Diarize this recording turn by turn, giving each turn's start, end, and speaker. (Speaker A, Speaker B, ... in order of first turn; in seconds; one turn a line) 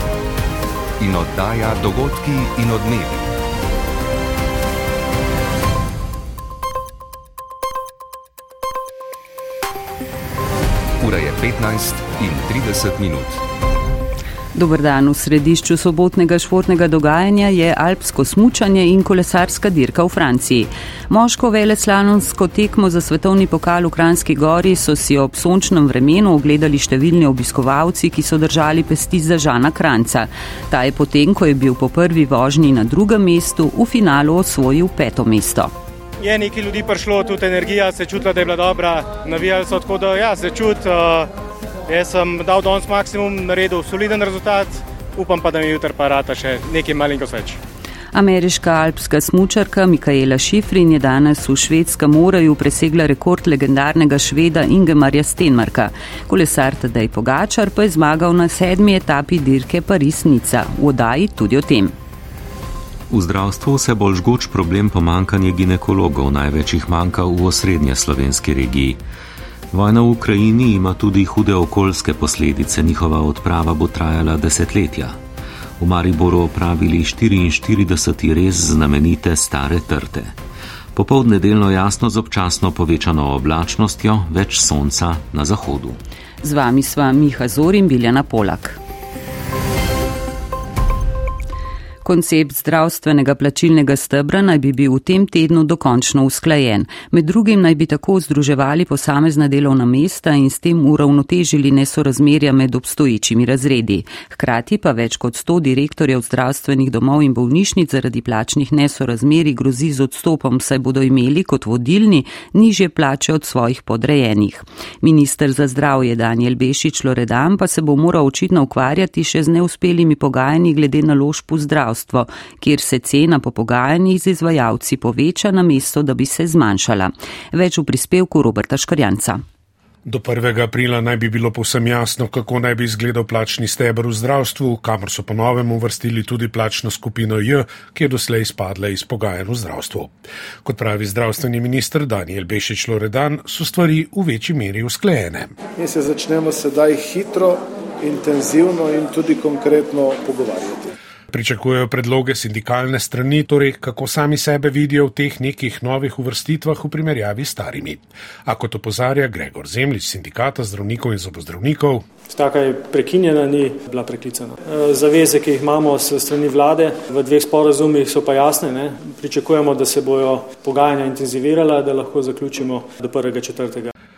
Speaker A: 1.0-3.3
Speaker A: 11.0-13.4
Speaker B: 14.5-35.7
Speaker C: 36.2-41.3
Speaker C: 41.9-47.6
Speaker B: 48.1-61.9
Speaker D: 63.1-69.0
Speaker D: 69.7-75.2
Speaker D: 75.8-80.4
Speaker D: 81.0-86.0
Speaker B: 86.4-88.8
Speaker B: 92.0-129.4
Speaker E: 130.1-145.6
Speaker F: 145.8-150.9
Speaker E: 151.3-162.1
Speaker G: 162.3-173.9